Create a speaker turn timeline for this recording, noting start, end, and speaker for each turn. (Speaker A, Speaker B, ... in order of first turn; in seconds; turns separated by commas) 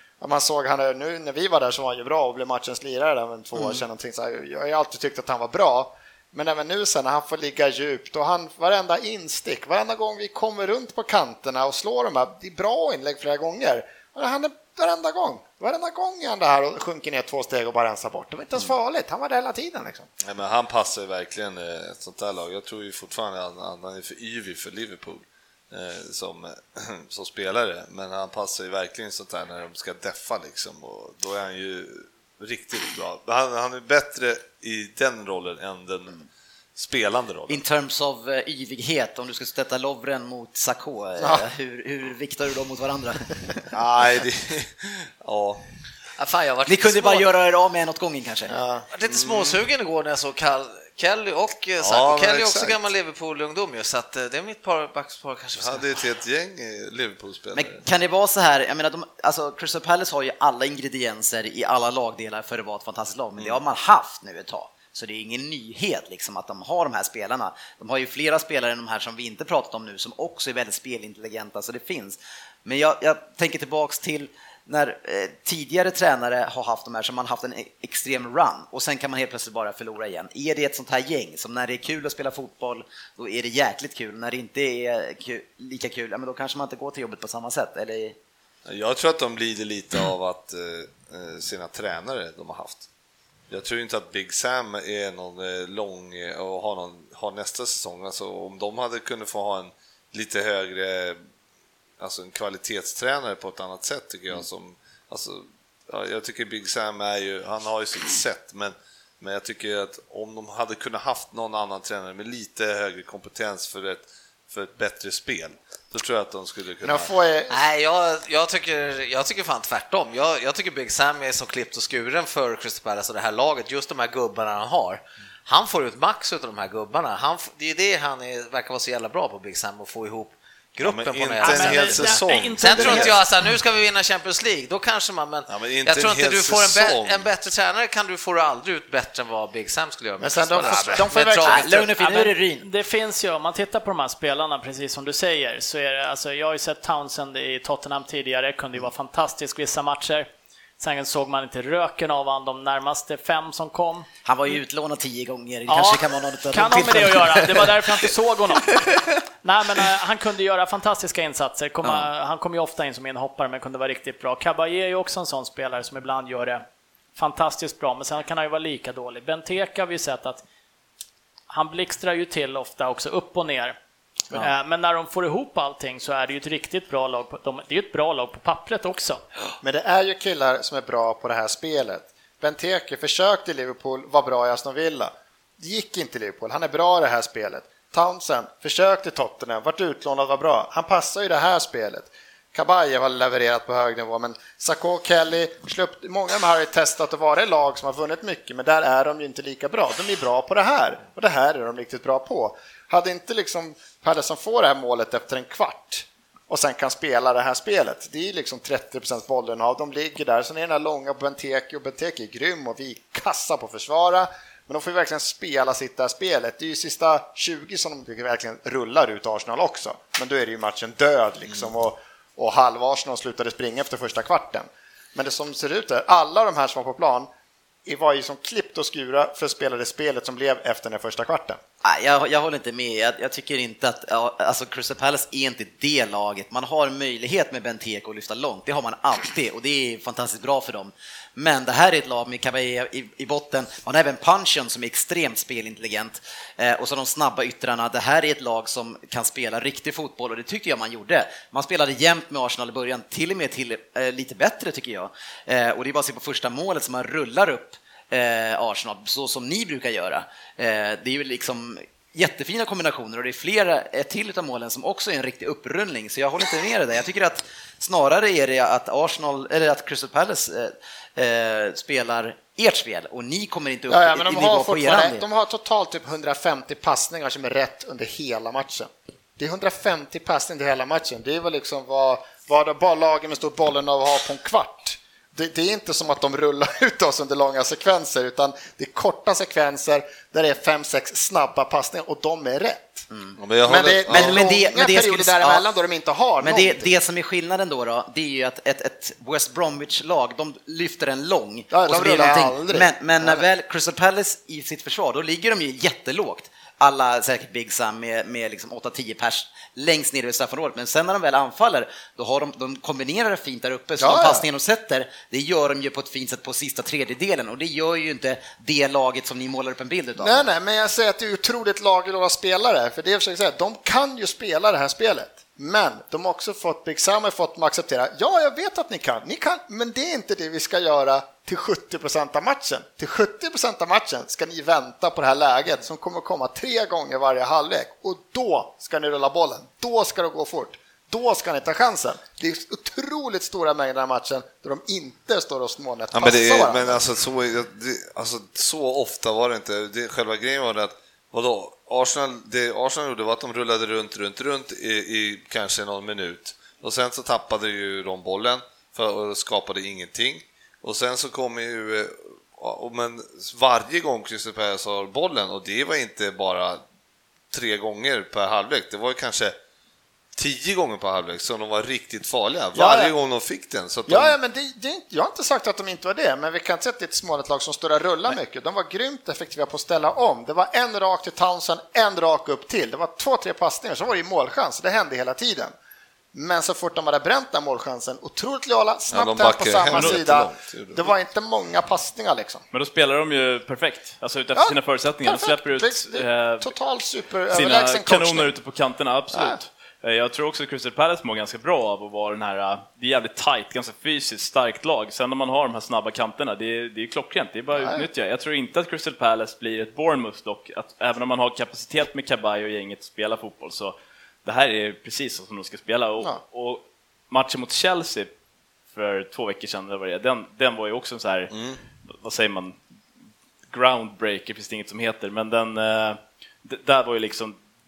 Speaker A: 0.2-20.1, Speaker B: 3.6-3.8, Speaker C: 20.2-37.6, Speaker B: 37.5-43.6, Speaker A: 41.2-41.5, Speaker C: 43.7-45.6, Speaker D: 46.2-47.3, Speaker B: 46.7-48.5, Speaker A: 48.5-48.9, Speaker D: 48.9-55.9, Speaker C: 49.1-49.6, Speaker C: 51.8-52.8, Speaker C: 55.6-57.8, Speaker B: 57.5-88.2, Speaker C: 88.7-92.9, Speaker C: 93.5-101.2, Speaker C: 102.0-117.1, Speaker A: 116.8-117.6, Speaker D: 117.5-141.9, Speaker C: 130.8-133.2, Speaker E: 131.4-133.2, Speaker C: 135.5-137.3, Speaker A: 140.2-141.7, Speaker B: 141.4-142.7, Speaker E: 142.0-150.3, Speaker E: 150.8-154.1, Speaker B: 154.3-157.7, Speaker E: 155.7-166.6, Speaker E: 167.2-170.4, Speaker E: 171.5-173.8, Speaker E: 174.3-179.2, Speaker A: 179.6-227.3, Speaker A: 227.9-231.6, Speaker B: 231.8-275.2, Speaker A: 273.9-293.1, Speaker B: 293.1-293.4, Speaker C: 293.4-294.4, Speaker A: 293.7-296.9, Speaker B: 294.1-295.7, Speaker B: 296.4-320.5, Speaker A: 301.7-303.4, Speaker A: 314.0-314.4, Speaker A: 320.2-347.1, Speaker C: 346.1-366.8, Speaker C: 367.5-369.6, Speaker C: 370.4-374.4, Speaker A: 372.8-373.1, Speaker A: 374.1-385.7, Speaker A: 386.3-392.6, Speaker C: 389.1-391.1, Speaker F: 389.9-390.2, Speaker F: 392.7-396.7, Speaker A: 394.6-398.5, Speaker F: 397.5-418.3, Speaker A: 399.3-399.6, Speaker A: 407.8-408.1, Speaker F: 418.9-421.5, Speaker C: 421.5-421.8, Speaker F: 422.1-422.8, Speaker F: 423.7-427.6